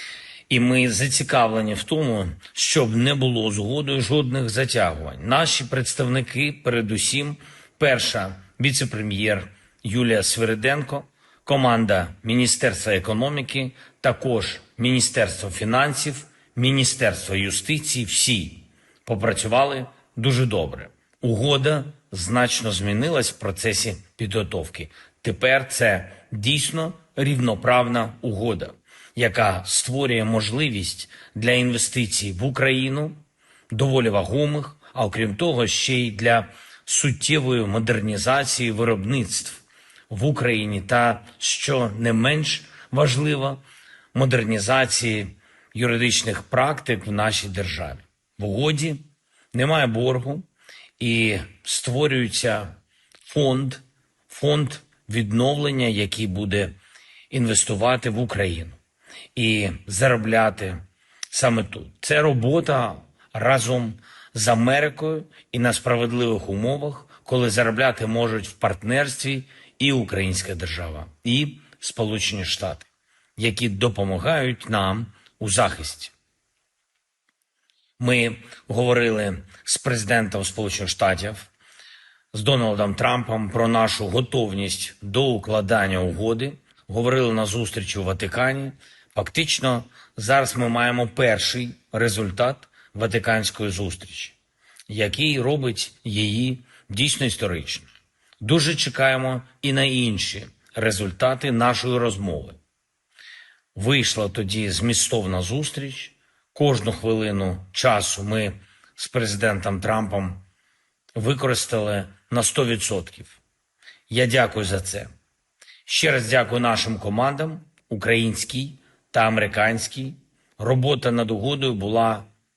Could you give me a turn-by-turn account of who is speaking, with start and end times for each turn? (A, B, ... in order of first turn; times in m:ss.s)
0:00.5-0:43.6 A
0:44.1-0:49.0 A
0:49.5-0:50.4 A
0:51.0-0:52.7 A
0:53.3-0:56.7 A
0:57.3-0:58.8 A
0:59.3-1:00.8 A
1:01.3-1:16.1 A
1:18.0-1:21.5 A
1:22.3-1:34.4 A
1:34.9-1:37.9 A
1:38.4-1:42.6 A
1:43.7-1:50.4 A
1:51.1-1:53.4 A
1:54.1-1:55.1 A
1:55.8-2:02.3 A